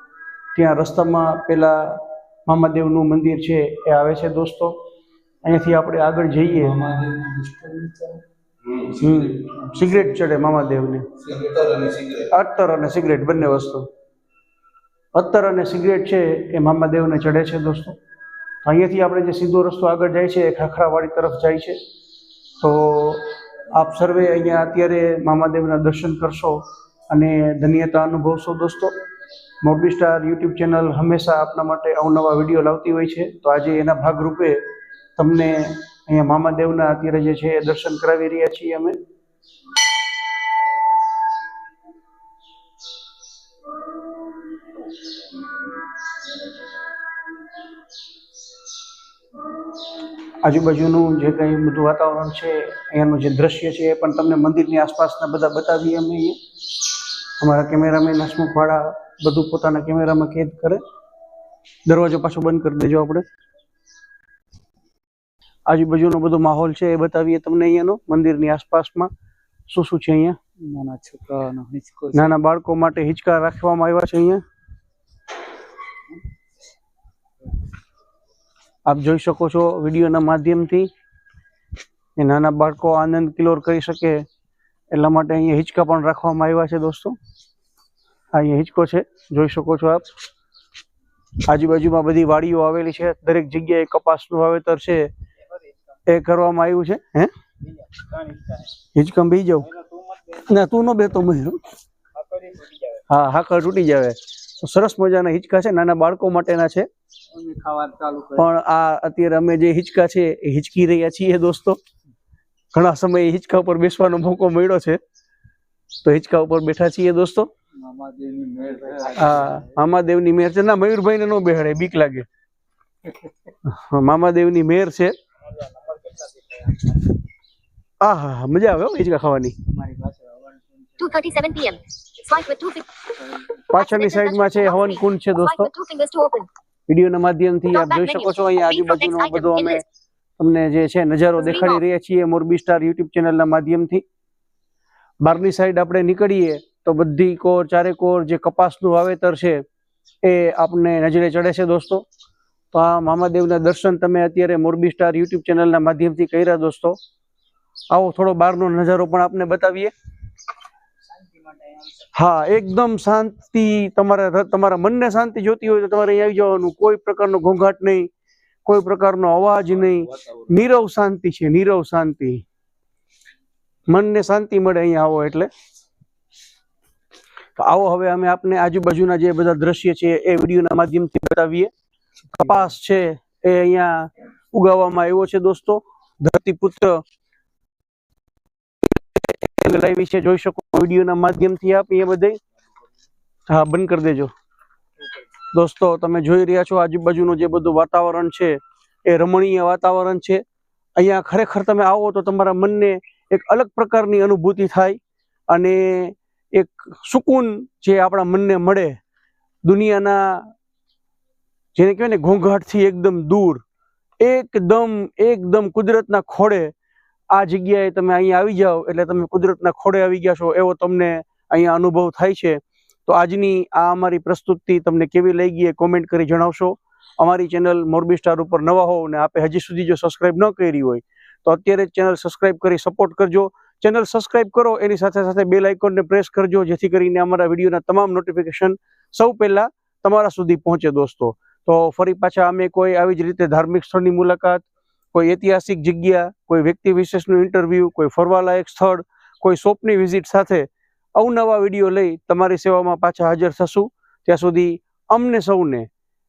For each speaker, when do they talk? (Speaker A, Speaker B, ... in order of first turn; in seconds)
Speaker A: 0.5-4.8, 5.4-6.8, 8.9-11.1, 12.1-13.9, 15.1-18.0, 18.6-21.8, 22.6-28.9, 29.6-34.6, 35.2-39.0, 50.4-56.4, 57.4-60.8, 61.9-63.2, 65.7-69.1, 69.7-70.4, 72.1-74.4, 78.9-80.9, 82.2-84.2, 84.9-87.2, 88.3-90.1, 91.5-95.1, 96.1-97.3, 98.9-99.7, 100.3-101.6, 103.1-106.9, 108.4-111.8, 112.7-115.0, 116.0-117.5, 119.1-122.2, 123.6-125.1, 128.0-129.6, 133.7-135.7, 136.9-139.8, 140.4-144.0, 145.2-149.6, 150.2-152.0, 152.7-157.0, 157.9-159.9, 162.1-168.1, 168.6-172.4, 173.9-175.5, 177.6-181.7, 182.3-187.0, 189.2-192.4, 193.5-194.3, 195.5-200.4, 201.0-205.0, 205.5-209.0, 209.7-210.5, 211.7-213.6, 214.2-216.7, 217.3-255.9
Speaker B: 6.6-8.2, 8.9-10.0, 11.2-12.1, 70.6-72.3, 107.3-108.5, 117.8-119.8, 129.7-131.2
Speaker C: 131.0-133.0, 133.8-136.5, 137.7-139.8, 141.4-141.8